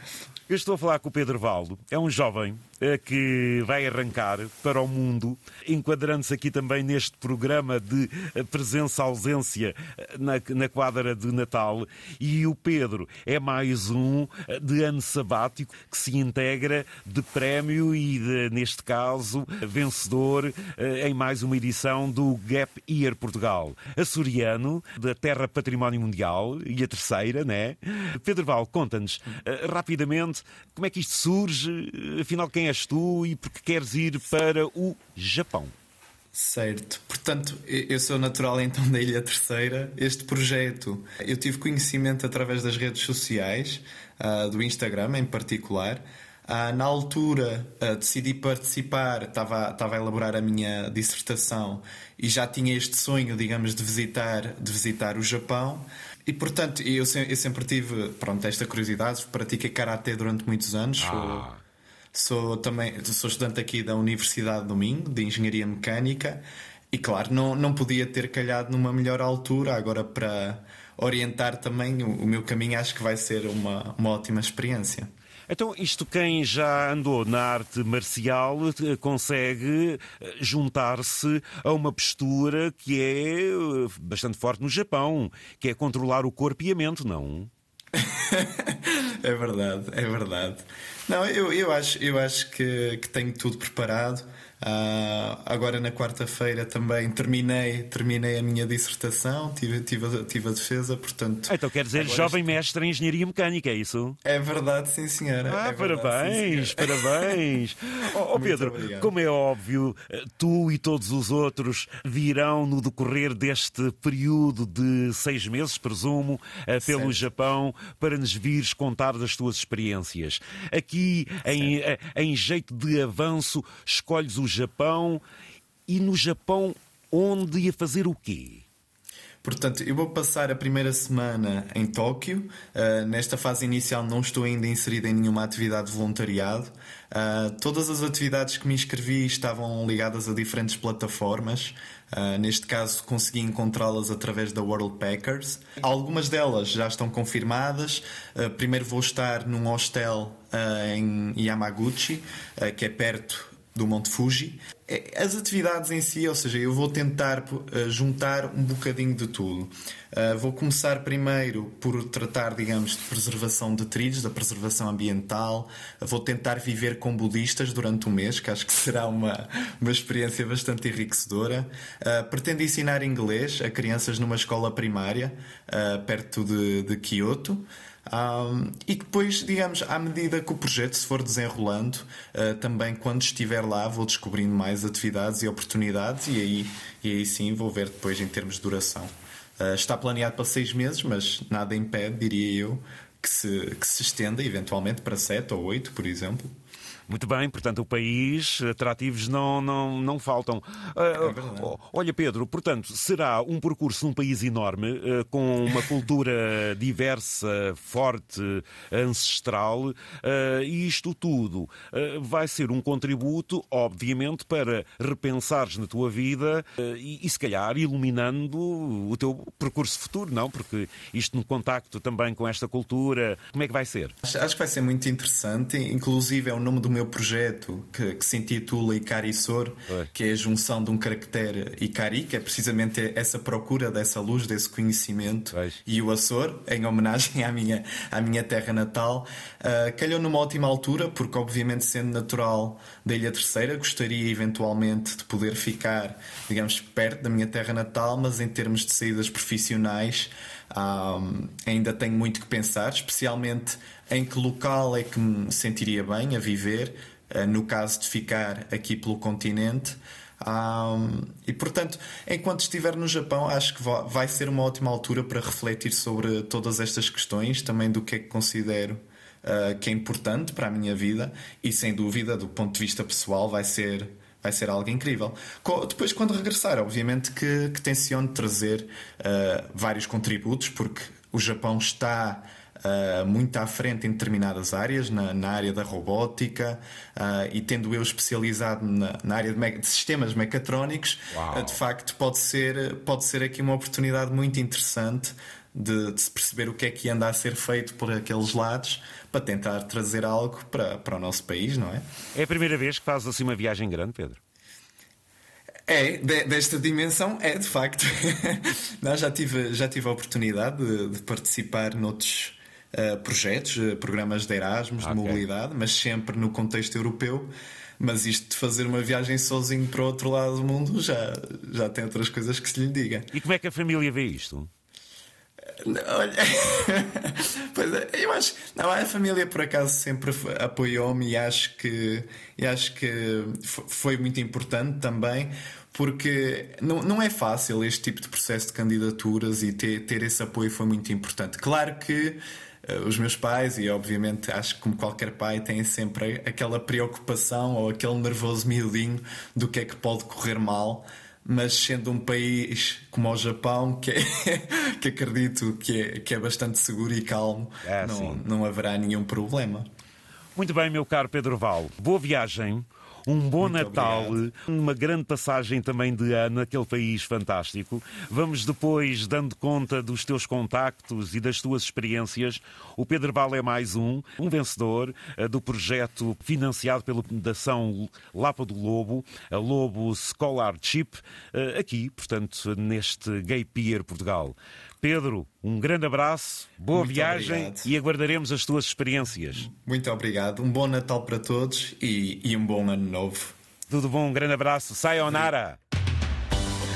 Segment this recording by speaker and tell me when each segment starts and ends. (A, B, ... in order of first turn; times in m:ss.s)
0:00.5-0:35.7 A
0:36.3-1:01.5 B
1:01.0-1:01.6 A
1:02.1-1:15.1 B
1:15.5-1:27.5 A
1:27.9-1:42.5 B
1:41.5-1:44.2 A
1:44.2-1:47.4 B
1:45.5-2:05.2 A
1:48.3-1:49.1 B
1:56.8-1:57.3 B
2:05.9-2:08.6 A
2:09.4-3:16.5 B
3:17.1-3:44.1 A
3:21.2-3:21.7 B
3:44.2-5:02.0 B
3:55.5-3:55.8 A
4:51.3-4:51.8 A
5:02.3-5:04.4 A
5:05.9-5:23.3 B
5:15.0-5:15.4 A
5:23.3-5:24.7 A
5:25.8-5:59.9 B
5:57.8-5:58.4 A
6:00.6-6:29.7 A
6:03.6-6:04.4 B
6:26.9-6:27.9 B
6:29.7-6:33.5 B
6:33.9-6:35.8 A